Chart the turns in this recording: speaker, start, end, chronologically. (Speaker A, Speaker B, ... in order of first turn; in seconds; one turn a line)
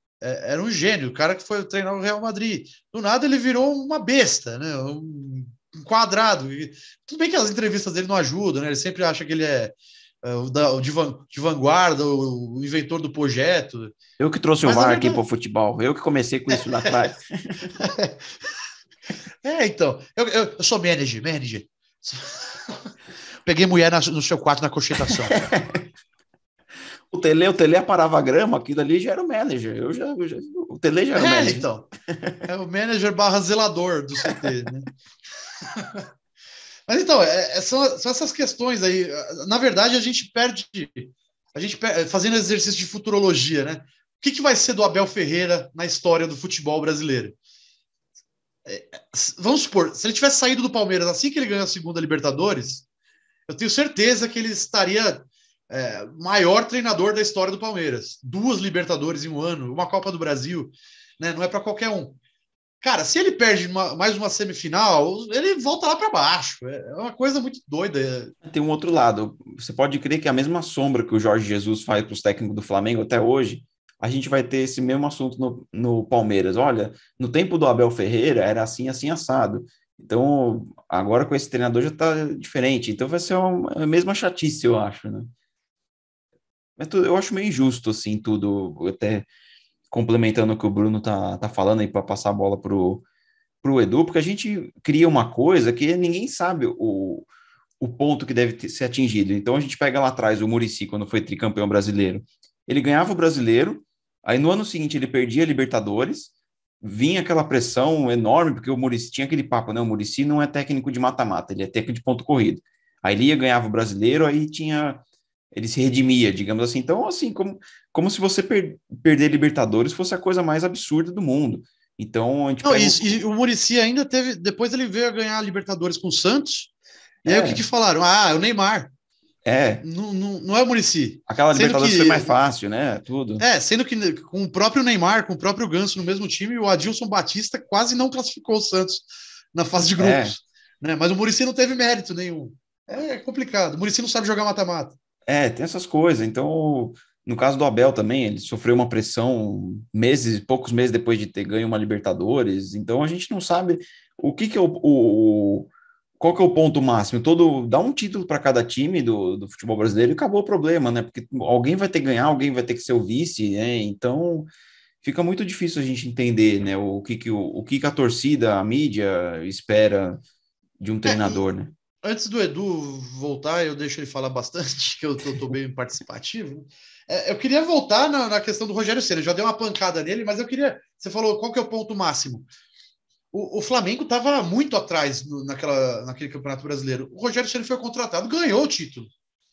Speaker A: 0.2-13.9
Speaker B: 14.2-17.8
Speaker A: 14.6-15.2
Speaker A: 16.6-16.9
Speaker A: 17.8-18.2
Speaker A: 19.4-22.9
Speaker A: 23.5-25.3
Speaker B: 25.1-25.9
Speaker B: 27.1-32.4
Speaker A: 31.1-31.9
Speaker A: 32.5-34.9
Speaker A: 35.6-36.1
Speaker A: 36.9-47.4
Speaker A: 48.7-52.9
Speaker A: 53.5-62.2
Speaker A: 62.8-68.3
Speaker B: 68.4-85.3
Speaker B: 86.8-89.3
Speaker B: 89.9-93.0
Speaker B: 93.6-97.3
Speaker B: 97.8-123.2
Speaker A: 122.6-126.7
Speaker B: 127.2-127.7
Speaker A: 127.2-128.9
Speaker B: 129.4-129.8
Speaker A: 129.8-132.3
Speaker B: 131.3-133.4
Speaker A: 133.4-145.0
Speaker B: 139.8-140.4
Speaker B: 145.3-164.5
Speaker B: 165.0-170.2
Speaker B: 170.8-171.7
Speaker A: 171.1-171.4
Speaker A: 172.0-182.5
Speaker A: 183.3-189.1